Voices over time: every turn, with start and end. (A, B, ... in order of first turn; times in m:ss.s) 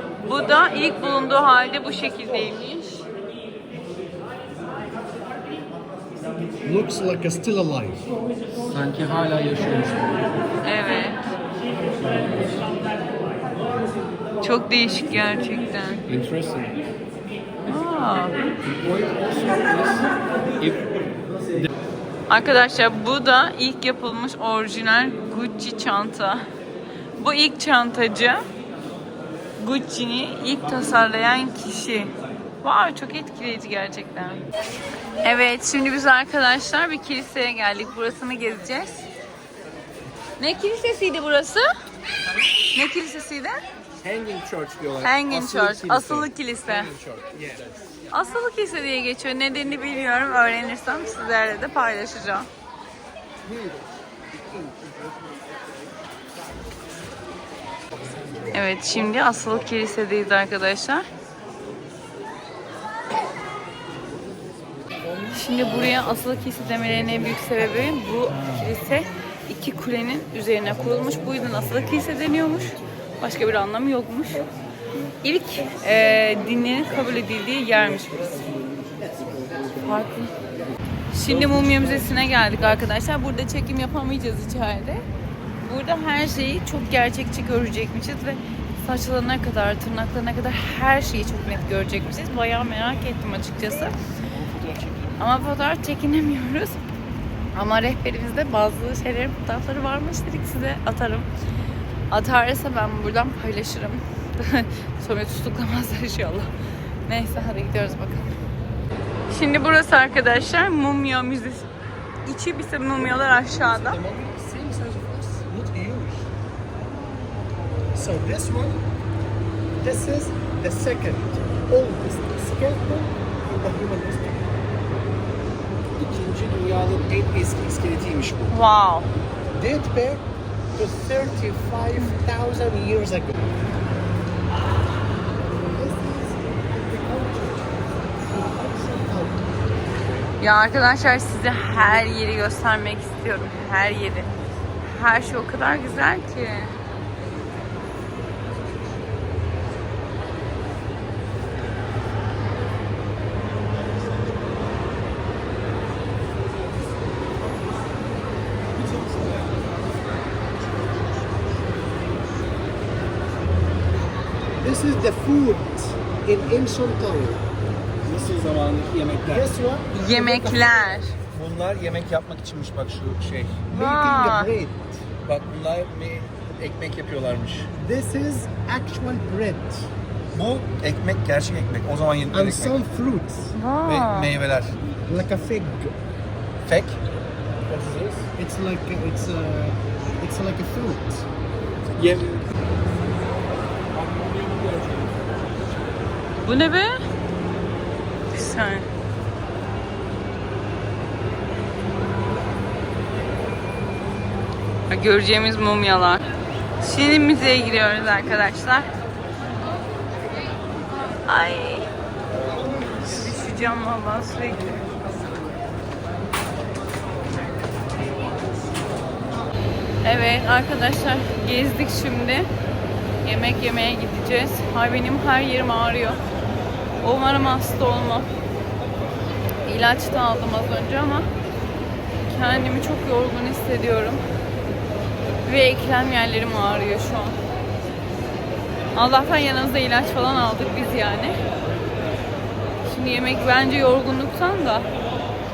0:00.2-0:03.0 A
0:06.6-0:08.1 B
0:08.6-0:10.4 C
0:10.6-0:11.3 A
0:12.0-0:12.7 C
0:14.4-0:16.0 A
0:16.1-0:16.8 C
0:17.7-0:18.5 A
0:18.6-0:21.0 C
0:22.3-0:26.4 A
0:27.2-0:28.4 A
0:29.6-0:34.4 A
0:35.2-0:39.1 A
0:40.4-0:41.7 A
0:42.7-0:43.6 A
0:44.0-0:47.8 C
0:45.0-0:46.9 A
0:48.1-0:52.5 A
0:53.4-0:55.5 B
0:58.5-1:01.0 A
1:05.3-1:14.4 A
1:15.2-1:18.5 A
1:18.7-1:19.2 C
1:19.0-1:19.8 B
1:19.8-1:20.3 A
1:21.1-1:25.0 A
1:25.6-1:34.0 A
1:34.3-1:35.1 C
1:35.2-1:36.8 A
1:37.6-1:41.3 A
1:42.1-1:46.5 A
1:47.1-1:48.3 A
1:49.3-1:51.7 A
1:52.3-1:54.0 A
1:53.1-1:56.3 B
1:57.9-1:58.8 B
1:59.8-2:04.6 B
2:06.0-2:08.6 C
2:08.5-2:09.1 A
2:09.5-2:13.6 B
2:15.6-2:19.6 B
2:20.4-2:24.3 A
2:24.8-2:26.8 A
2:38.8-2:39.6 C
2:44.6-2:47.5 B
2:48.0-2:49.5 C
2:49.3-2:50.2 B
2:49.9-2:51.1 A
2:50.2-2:50.6 C
2:51.3-2:53.6 C
2:53.7-2:55.1 B
2:53.7-2:54.5 A
2:55.2-2:57.7 C
2:57.8-2:59.9 B
3:00.3-3:02.8 C
3:02.3-3:03.5 B
3:03.5-3:04.3 A
3:03.8-3:04.8 C
3:05.0-3:06.0 B
3:06.6-3:07.0 C
3:07.7-3:08.3 C
3:08.4-3:11.3 B
3:12.0-3:12.5 C
3:13.9-3:16.0 C
3:16.4-3:16.9 A
3:18.3-3:18.9 A
3:24.9-3:26.2 A
3:26.8-3:28.9 A
3:31.3-3:31.9 A
3:33.0-3:35.0 A
3:40.0-3:42.5 A
3:43.2-3:46.2 A
3:47.0-3:48.3 A
3:49.7-3:51.3 A
3:52.3-3:54.2 A
3:55.4-3:57.4 A
3:59.0-4:01.4 A
4:02.9-4:04.9 A